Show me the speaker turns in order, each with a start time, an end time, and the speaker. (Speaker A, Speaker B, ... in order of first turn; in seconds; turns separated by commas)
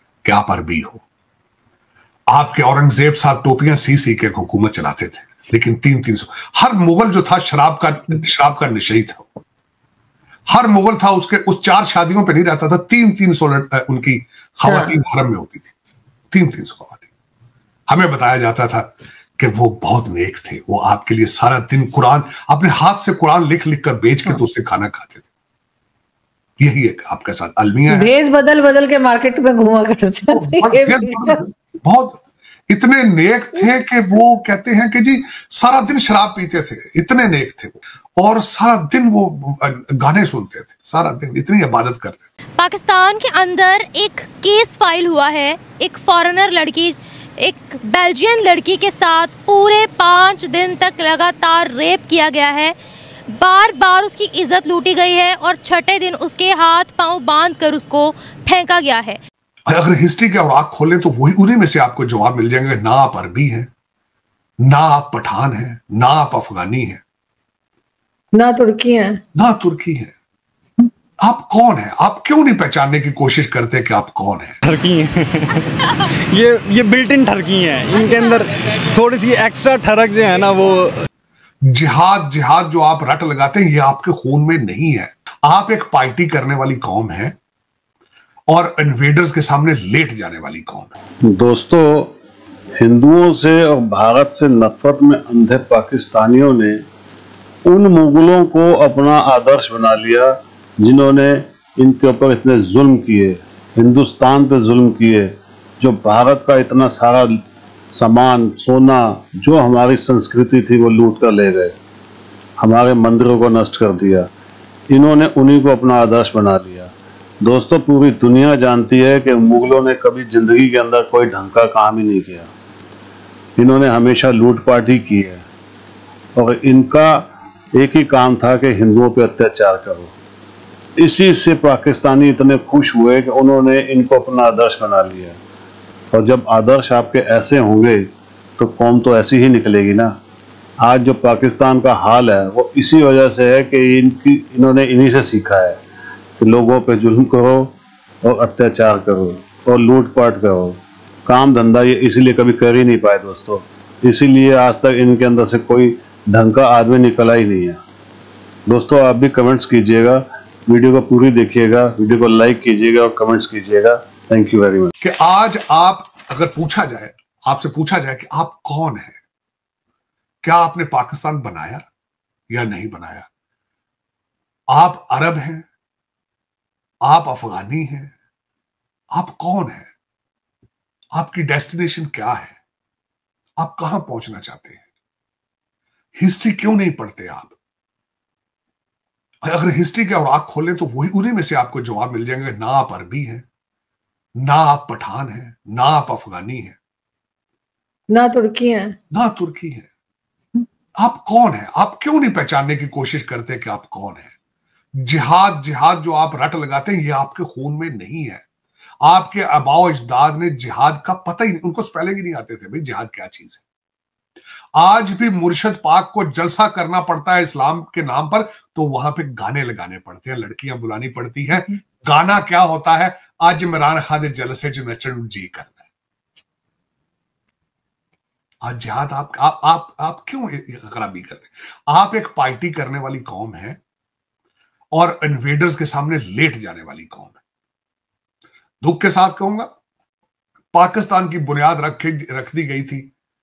Speaker A: 0.2-1.0, Speaker A: 2.3-9.3, Speaker A: 10.5-15.7, Speaker B: 14.7-14.9, Speaker A: 16.3-17.1, Speaker A: 17.9-25.2, Speaker A: 26.6-28.1, Speaker B: 27.9-31.4, Speaker A: 30.3-42.3, Speaker C: 42.6-52.7, Speaker C: 53.3-59.2, Speaker A: 59.7-63.7, Speaker A: 64.6-67.0, Speaker B: 68.3-69.2, Speaker A: 69.3-70.1, Speaker A: 71.2-74.6, Speaker D: 74.6-75.8, Speaker D: 76.3-81.0, Speaker A: 81.7-87.3, Speaker A: 88.5-90.9, Speaker E: 91.2-92.1, Speaker E: 92.8-96.8, Speaker E: 97.6-107.3, Speaker E: 107.9-111.7, Speaker E: 112.6-114.3, Speaker E: 114.9-122.5, Speaker E: 123.6-125.5, Speaker E: 126.3-130.1, Speaker E: 131.0-135.4, Speaker E: 136.1-138.1, Speaker E: 138.6-140.1, Speaker E: 140.8-145.8, Speaker E: 146.4-157.8, Speaker E: 158.7-164.9, Speaker A: 165.0-169.2, Speaker A: 170.4-171.8, Speaker A: 172.5-173.3, Speaker A: 174.7-175.6, Speaker A: 177.0-178.1, Speaker A: 179.1-179.9, Speaker A: 181.2-182.6, Speaker A: 183.6-184.8, Speaker A: 186.2-187.6, Speaker A: 189.4-193.4, Speaker A: 194.4-196.8, Speaker B: 198.1-198.9, Speaker A: 199.1-199.9, Speaker A: 201.0-204.3, Speaker A: 205.0-208.4, Speaker A: 209.0-213.6, Speaker A: 214.8-225.9, Speaker A: 228.6-233.8, Speaker A: 234.9-237.4, Speaker A: 238.8-239.7, Speaker A: 240.7-243.1